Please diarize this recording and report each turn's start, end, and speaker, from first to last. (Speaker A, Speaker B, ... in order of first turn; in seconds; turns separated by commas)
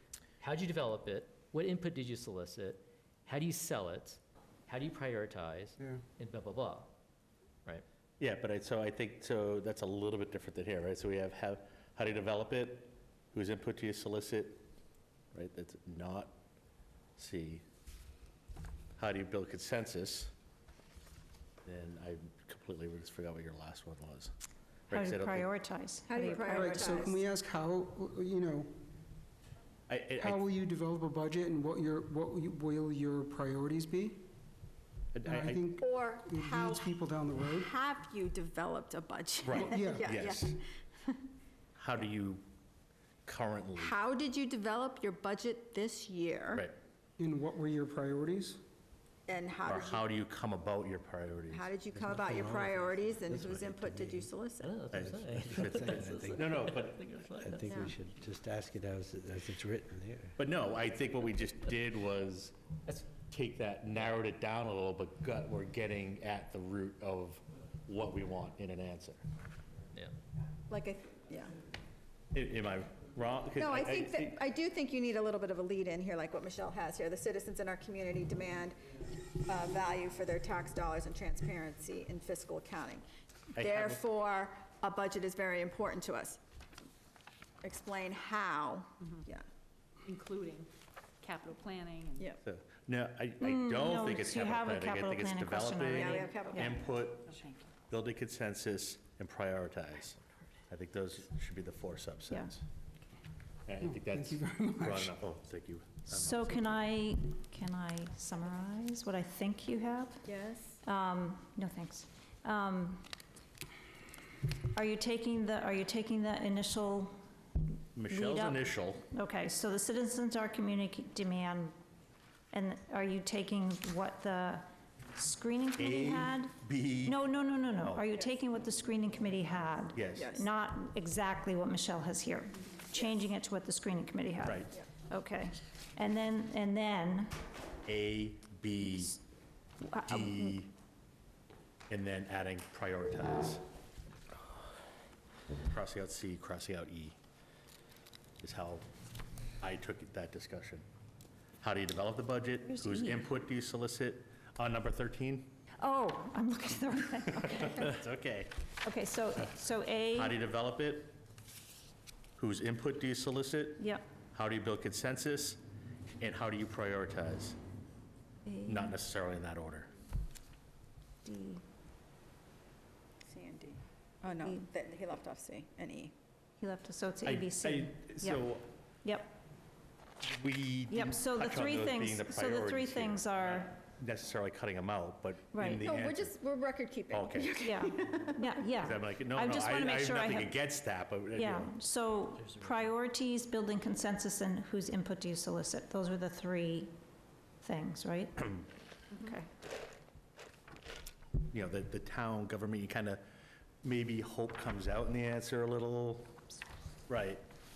Speaker A: 0.4-6.9, Speaker B: 8.2-14.7, Speaker B: 15.3-16.4, Speaker B: 17.2-17.6, Speaker B: 19.0-20.3, Speaker B: 21.6-24.3, Speaker B: 24.9-25.5, Speaker C: 24.9-27.1, Speaker D: 26.1-27.2, Speaker E: 26.5-28.7, Speaker B: 29.9-30.4, Speaker E: 30.2-34.3, Speaker B: 35.1-35.7, Speaker E: 35.2-37.7, Speaker D: 35.8-37.0, Speaker D: 37.5-41.2, Speaker B: 39.5-40.6, Speaker E: 39.5-40.1, Speaker B: 41.8-42.4, Speaker B: 43.3-44.0, Speaker D: 43.8-46.7, Speaker E: 47.2-48.6, Speaker D: 49.3-50.1, Speaker B: 49.6-51.7, Speaker D: 51.5-54.7, Speaker F: 51.9-54.3, Speaker A: 54.6-57.9, Speaker B: 54.9-57.0, Speaker F: 55.4-56.5, Speaker F: 57.4-60.4, Speaker D: 57.6-58.0, Speaker B: 60.4-62.6, Speaker B: 63.2-69.2, Speaker D: 70.7-71.5, Speaker B: 72.3-74.4, Speaker D: 73.6-78.8, Speaker D: 79.5-83.0, Speaker B: 83.6-84.0, Speaker D: 83.6-86.4, Speaker D: 87.6-89.5, Speaker G: 90.0-90.7, Speaker G: 91.2-92.3, Speaker B: 92.4-97.4, Speaker C: 93.4-96.8, Speaker D: 96.0-96.9, Speaker G: 96.2-96.7, Speaker B: 97.9-100.2, Speaker B: 100.7-102.6, Speaker B: 103.7-106.7, Speaker E: 103.8-105.1, Speaker C: 106.1-110.3, Speaker D: 110.2-110.8, Speaker C: 110.8-113.1, Speaker C: 114.8-117.2, Speaker B: 118.0-119.0, Speaker C: 118.1-121.8, Speaker C: 122.5-137.3, Speaker B: 125.8-127.2, Speaker B: 127.8-128.1, Speaker B: 129.9-130.3, Speaker D: 130.2-130.4, Speaker B: 134.4-134.7, Speaker B: 137.9-139.1, Speaker C: 138.9-139.2, Speaker C: 139.8-140.6, Speaker B: 140.1-140.7, Speaker B: 141.9-143.6, Speaker B: 145.7-147.2, Speaker B: 148.4-148.9, Speaker B: 149.6-150.8, Speaker B: 151.6-155.5, Speaker C: 152.7-153.3, Speaker C: 155.8-157.9, Speaker B: 157.3-158.5, Speaker C: 158.8-160.4, Speaker B: 160.1-161.2, Speaker B: 162.4-165.6, Speaker C: 163.8-164.1, Speaker B: 166.2-167.6, Speaker B: 168.7-169.9, Speaker C: 171.2-171.6, Speaker D: 173.3-176.1, Speaker C: 174.3-174.7, Speaker C: 176.6-178.4, Speaker B: 177.2-178.7, Speaker C: 179.0-179.3, Speaker B: 180.2-186.3, Speaker C: 180.9-183.8, Speaker C: 185.5-185.9, Speaker D: 185.8-188.5, Speaker B: 187.1-187.6, Speaker C: 187.6-190.6, Speaker B: 188.8-191.8, Speaker C: 191.3-196.9, Speaker A: 192.4-192.8, Speaker C: 197.6-198.6, Speaker C: 199.2-199.4, Speaker B: 201.5-203.2, Speaker B: 203.8-206.4, Speaker B: 207.1-207.4